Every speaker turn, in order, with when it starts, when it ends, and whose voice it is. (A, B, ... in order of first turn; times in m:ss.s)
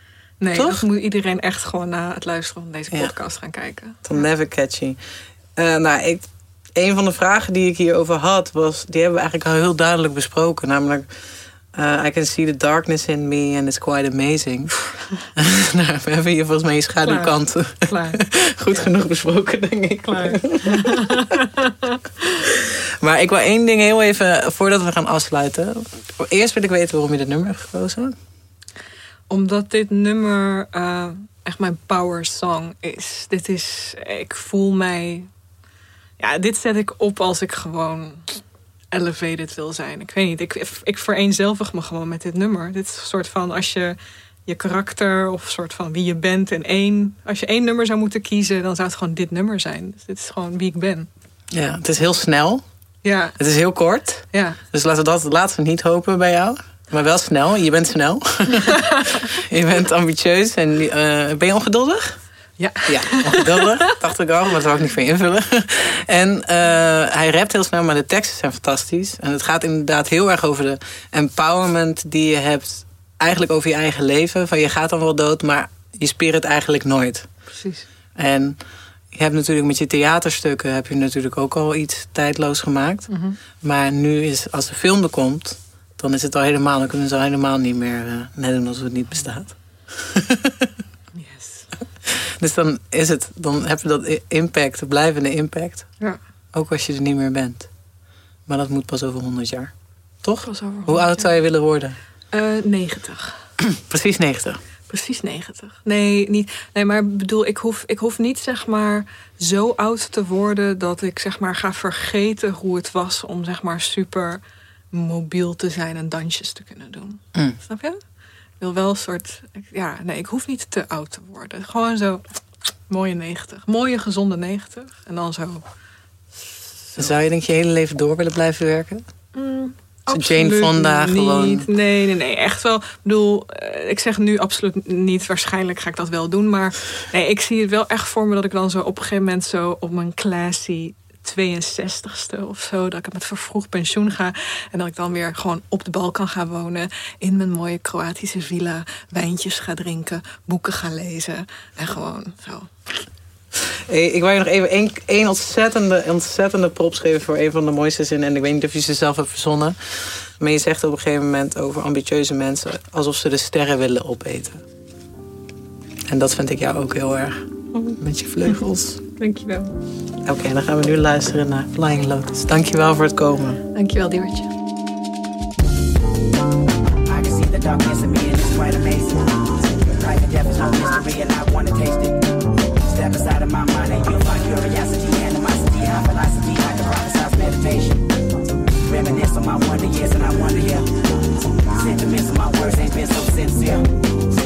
0:00.4-0:04.2 A
0:00.5-0:00.8 B
0:04.0-0:05.0 B
0:05.6-0:11.1 B
0:11.7-0:14.8 B
0:15.3-0:21.3 B
0:17.0-0:18.2 A
0:20.1-0:22.0 A
0:22.6-0:28.2 B
0:29.3-0:35.3 A
0:36.2-0:38.4 A
0:38.9-0:51.1 A
0:51.5-0:52.6 B
0:53.0-0:53.4 A
0:53.4-1:02.2 B
0:54.3-0:54.6 A
1:02.6-1:03.9 A
1:02.9-1:17.3 B
1:17.5-1:17.9 A
1:18.2-1:18.6 B
1:19.1-1:30.7 B
1:23.1-1:23.4 A
1:31.1-1:31.7 A
1:32.1-1:35.9 B
1:36.5-1:37.7 B
1:38.5-1:42.0 B
1:40.4-1:41.3 A
1:42.3-1:43.4 A
1:43.6-1:44.6 B
1:44.9-1:58.0 A
1:58.6-2:02.2 A
2:02.9-2:05.6 A
2:06.3-2:07.0 A
2:07.0-2:09.0 B
2:09.3-2:33.0 A
2:10.1-2:11.7 B
2:33.7-2:44.6 B
2:46.1-2:49.0 B
2:47.7-2:48.0 A
2:49.2-2:49.8 A
2:50.2-2:53.6 B
2:53.7-2:54.5 A
2:57.0-3:08.1 C
3:08.8-3:11.1 C
3:11.7-3:13.9 C